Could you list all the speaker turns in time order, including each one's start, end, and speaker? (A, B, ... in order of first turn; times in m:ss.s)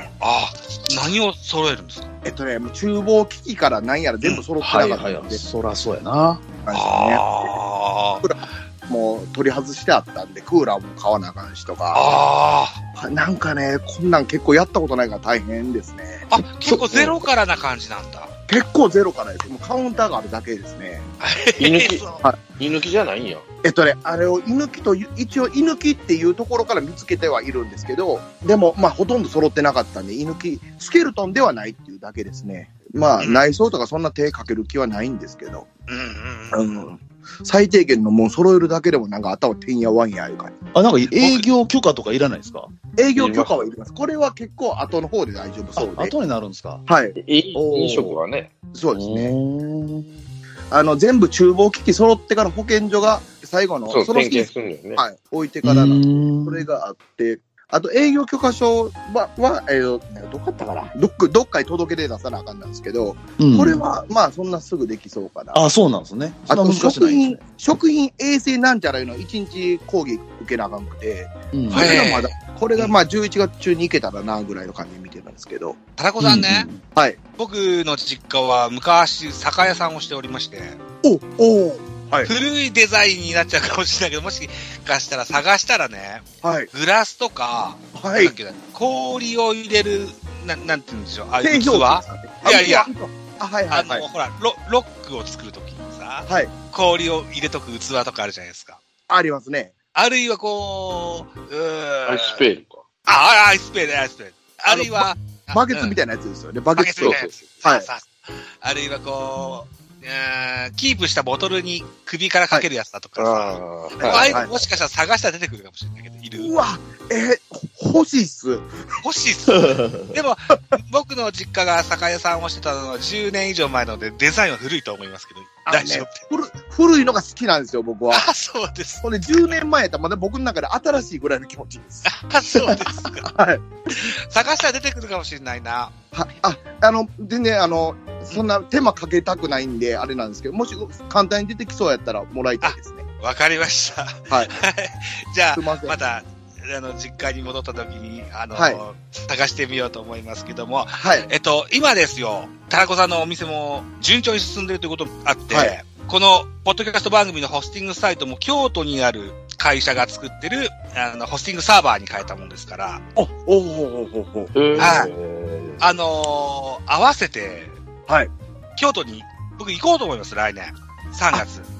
0:00.2-0:02.1 A
0:02.2-0:05.4 B
0:04.6-0:06.4 C
0:06.6-0:07.6 B
0:06.7-0:08.5 A
0:08.2-0:12.0 B
0:11.9-0:12.8 A
0:13.0-0:17.2 B
0:16.3-0:18.3 A
0:18.5-0:21.1 B
0:21.2-0:22.2 A
0:21.6-0:23.4 D
0:23.6-0:35.7 B
0:33.2-0:33.5 A
0:35.9-0:36.8 A
0:36.5-0:40.5 B
0:40.7-0:42.7 C
0:41.1-0:41.4 A
0:43.0-0:46.1 B
0:43.2-0:43.7 D
0:45.8-0:46.8 C
0:46.8-0:47.2 B
0:47.2-0:48.5 D
0:47.5-0:48.1 C
0:48.7-0:49.4 B
0:48.9-0:50.2 C
0:50.7-1:05.6 B
0:53.9-0:55.0 D
0:55.6-0:56.6 C
1:03.4-1:03.8 C
1:05.5-1:07.4 C
1:06.5-1:15.8 B
1:11.5-1:12.0 C
1:11.7-1:12.9 A
1:16.0-1:16.7 A
1:16.2-1:16.8 C
1:17.4-1:20.8 A
1:21.0-1:22.3 B
1:22.2-1:32.9 A
1:26.4-1:26.7 B
1:27.9-1:28.4 B
1:31.4-1:34.0 B
1:33.7-1:38.8 A
1:36.3-1:36.5 B
1:39.1-1:39.7 B
1:39.9-1:42.4 A
1:42.0-1:42.8 D
1:43.0-1:46.0 A
1:44.7-1:47.9 B
1:46.7-1:48.1 A
1:47.0-1:47.3 D
1:48.6-1:56.6 A
1:53.2-1:54.5 D
1:54.0-1:54.6 B
1:56.4-1:58.7 B
1:59.0-2:06.2 A
2:05.6-2:08.2 B
2:08.1-2:09.5 A
2:09.0-2:12.1 B
2:12.0-2:13.3 A
2:13.2-2:13.6 B
2:13.9-2:15.9 A
2:16.1-2:23.0 B
2:22.6-2:43.0 A
2:24.3-2:24.6 B
2:25.5-2:26.0 B
2:28.5-2:28.8 B
2:31.0-2:31.3 B
2:35.5-2:35.8 B
2:43.2-2:45.1 B
2:44.5-2:45.8 D
2:44.8-2:45.1 A
2:45.8-2:47.8 A
2:48.8-2:51.6 A